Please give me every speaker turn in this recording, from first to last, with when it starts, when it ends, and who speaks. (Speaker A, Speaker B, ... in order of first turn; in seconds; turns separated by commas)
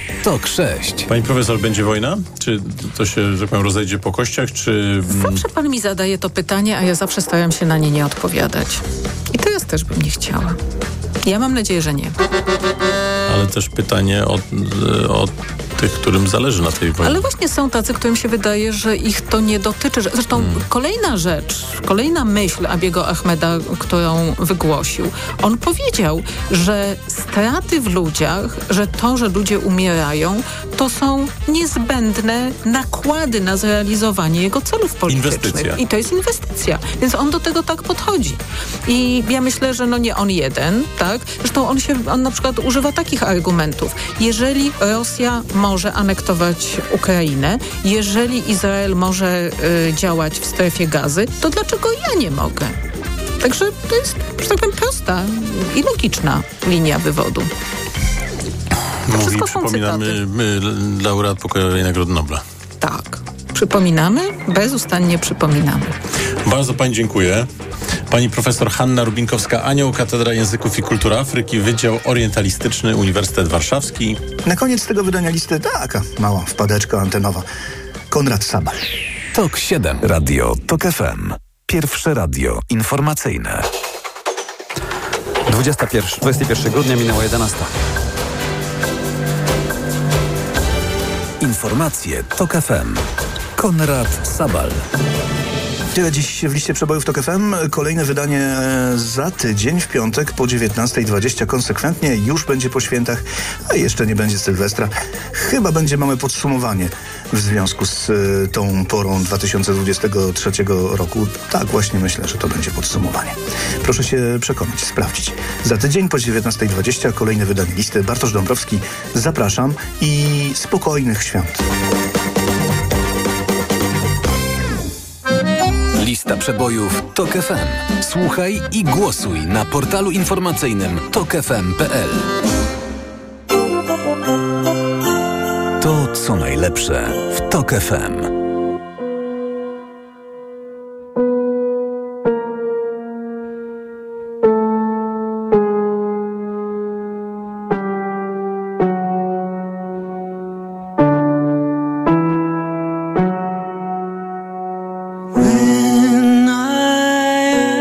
Speaker A: 0.2-1.1, Speaker B: 1.1-5.4, Speaker C: 5.1-10.6, Speaker C: 11.2-12.1, Speaker B: 13.3-17.3, Speaker C: 17.0-52.8, Speaker B: 20.4-20.6, Speaker B: 35.1-35.8, Speaker C: 53.4-57.5, Speaker B: 59.0-62.4, Speaker C: 59.1-60.2, Speaker C: 62.8-65.9, Speaker B: 66.4-67.5, Speaker B: 68.1-74.2, Speaker D: 74.4-77.4, Speaker D: 78.1-78.8, Speaker A: 79.3-83.7, Speaker E: 85.5-87.7, Speaker A: 91.4-93.0, Speaker A: 93.5-94.8, Speaker D: 95.9-121.6, Speaker A: 126.0-132.3, Speaker A: 135.8-138.3